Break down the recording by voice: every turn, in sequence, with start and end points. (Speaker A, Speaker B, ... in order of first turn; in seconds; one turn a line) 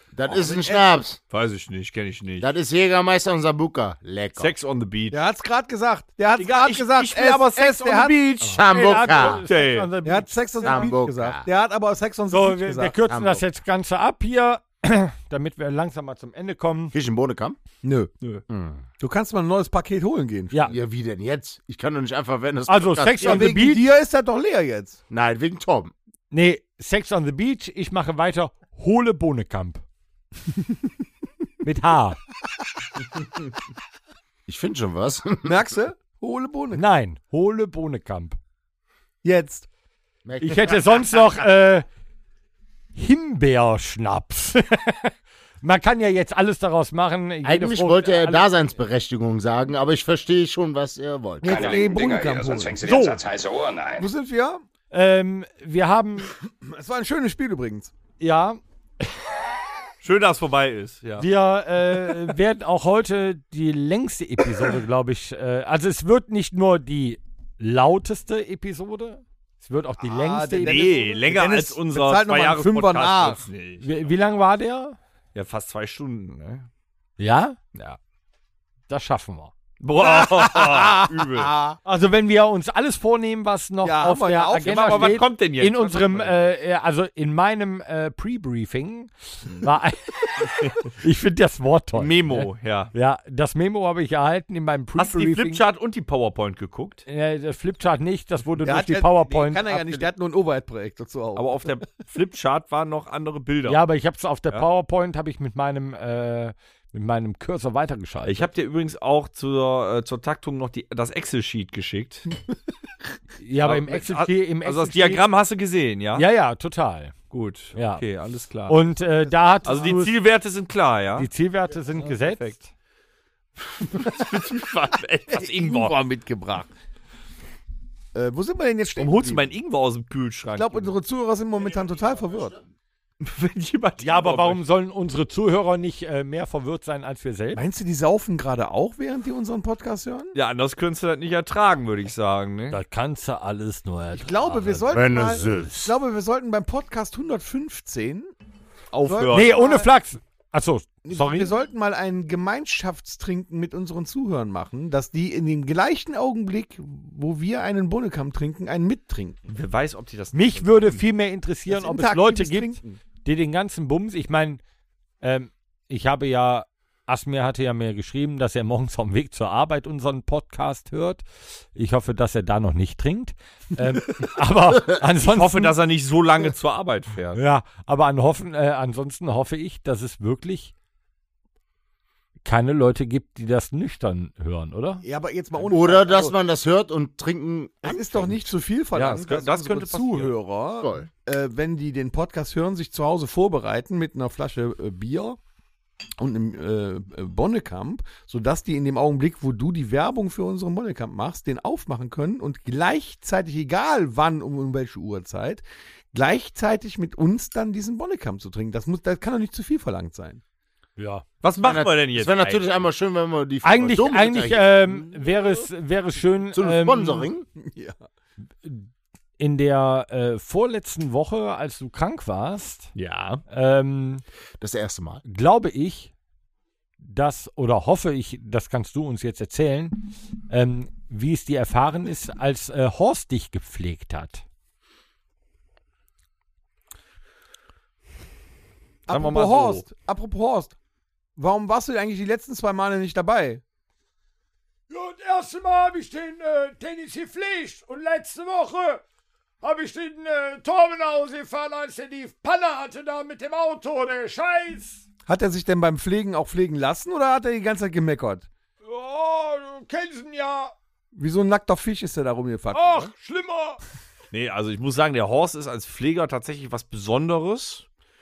Speaker A: 0.1-1.2
Speaker B: 0.2-1.0
Speaker C: 1.3-2.5
Speaker A: 2.4-4.5
Speaker C: 4.3-5.2
Speaker B: 5.1-8.6
Speaker C: 6.4-8.6
Speaker A: 8.4-9.4
Speaker D: 8.6-10.9
Speaker C: 9.5-9.9
Speaker B: 10.0-12.9
Speaker A: 10.6-11.4
Speaker D: 12.3-16.9
Speaker A: 13.1-13.4
Speaker A: 16.9-17.6
Speaker B: 17.8-18.1
Speaker A: 18.5-18.8
Speaker B: 19.0-20.7
Speaker A: 20.7-23.5
Speaker D: 22.7-23.8
Speaker B: 23.2-25.0
Speaker A: 25.1-25.9
Speaker D: 26.3-29.8
Speaker D: 31.6-32.2
Speaker A: 34.5-35.7
Speaker B: 35.4-36.8
Speaker D: 36.7-38.4
Speaker B: 39.2-39.6
Speaker A: 40.2-41.0
Speaker D: 40.4-41.8
Speaker D: 42.9-48.5
Speaker A: 47.4-51.8
Speaker B: 51.4-53.2
Speaker E: 51.4-54.1
Speaker B: 54.0-54.6
Speaker D: 54.9-56.3
Speaker B: 56.5-57.9
Speaker D: 58.2-58.6
Speaker C: 60.0-61.3
Speaker D: 61.2-70.9
Speaker B: 70.0-73.4
Speaker C: 70.6-73.9
Speaker D: 73.8-75.0
Speaker C: 75.3-76.7
Speaker D: 77.2-77.6
Speaker D: 78.9-79.5
Speaker C: 79.8-81.5
Speaker B: 80.0-81.8
Speaker D: 81.8-95.6
Speaker B: 83.8-85.2
Speaker C: 84.6-86.5
Speaker C: 92.0-92.9
Speaker C: 95.0-97.0
Speaker D: 97.1-100.1
Speaker B: 98.6-101.8
Speaker C: 101.3-103.8
Speaker D: 103.7-108.5
Speaker C: 108.2-112.3
Speaker D: 113.4-115.2
Speaker C: 113.6-116.3
Speaker D: 116.1-117.1
Speaker C: 117.3-118.8
Speaker D: 117.7-118.0
Speaker D: 118.7-120.2
Speaker B: 119.6-119.9
Speaker C: 119.7-121.3
Speaker D: 121.2-122.6
Speaker C: 122.0-122.7
Speaker C: 123.9-126.0
Speaker B: 125.3-126.7
Speaker B: 128.1-129.5
Speaker C: 128.9-130.9
Speaker B: 130.5-132.6
Speaker C: 133.2-134.6
Speaker D: 134.0-137.6
Speaker B: 137.5-140.3
Speaker C: 140.3-142.8
Speaker D: 142.7-144.9
Speaker B: 144.1-148.3
Speaker A: 144.9-145.9
Speaker C: 148.9-149.7
Speaker B: 149.0-149.9
Speaker D: 149.3-151.5
Speaker B: 151.0-159.4
Speaker C: 159.5-161.0
Speaker D: 160.3-164.6
Speaker B: 161.7-163.0
Speaker D: 165.2-175.7
Speaker C: 175.2-177.4
Speaker D: 177.3-180.7
Speaker D: 182.4-185.0
Speaker B: 185.0-186.3
Speaker A: 185.7-188.4
Speaker B: 187.8-195.4
Speaker C: 188.9-190.3
Speaker A: 190.8-191.1
Speaker B: 196.2-210.4
Speaker D: 211.0-211.2
Speaker C: 211.4-212.7
Speaker A: 211.6-215.3
Speaker D: 213.6-217.3
Speaker A: 216.5-217.4
Speaker B: 217.6-218.0
Speaker D: 219.4-222.9
Speaker C: 222.9-223.4
Speaker D: 223.5-224.2
Speaker A: 224.6-225.2
Speaker D: 225.2-226.1
Speaker D: 227.0-234.4
Speaker B: 239.1-240.7
Speaker C: 239.1-239.9
Speaker B: 241.4-243.6
Speaker D: 244.9-249.0
Speaker D: 249.6-255.0
Speaker B: 255.3-258.5
Speaker D: 258.8-260.7
Speaker B: 261.1-263.1
Speaker D: 262.7-263.8
Speaker C: 264.3-267.8